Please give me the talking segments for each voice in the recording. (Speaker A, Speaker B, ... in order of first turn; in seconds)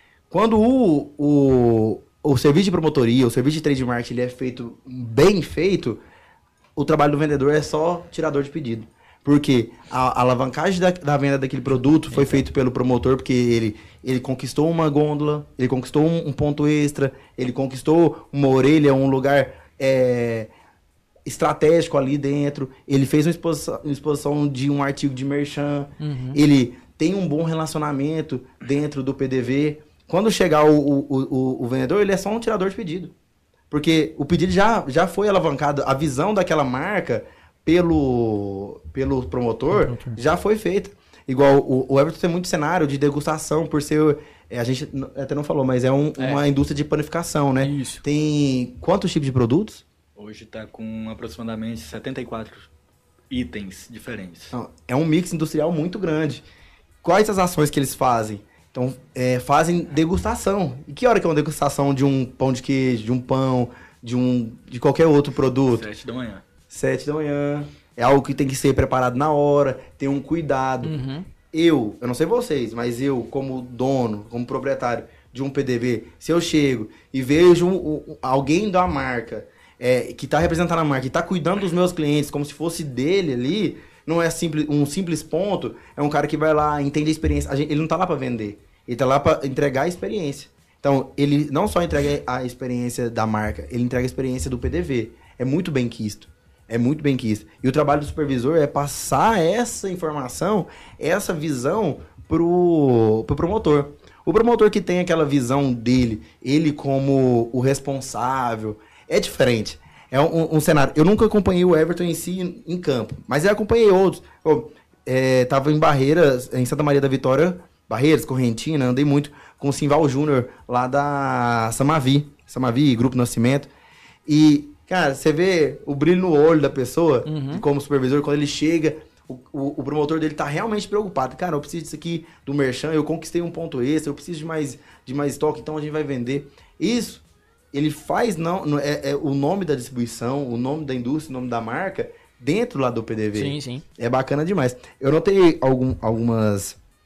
Speaker A: 0.3-6.0, 6.8-20.5, 21.2-33.1, 33.7-49.8, 54.5-56.5, 57.0-65.9, 66.7-70.9, 71.5-123.7, 124.2-146.8
Speaker B: 12.1-12.4, 26.0-26.4, 39.7-40.2, 46.2-46.4, 47.6-48.0, 70.8-71.3, 127.2-127.6, 143.3-143.8
Speaker C: 50.1-52.7, 53.3-54.5, 65.7-66.4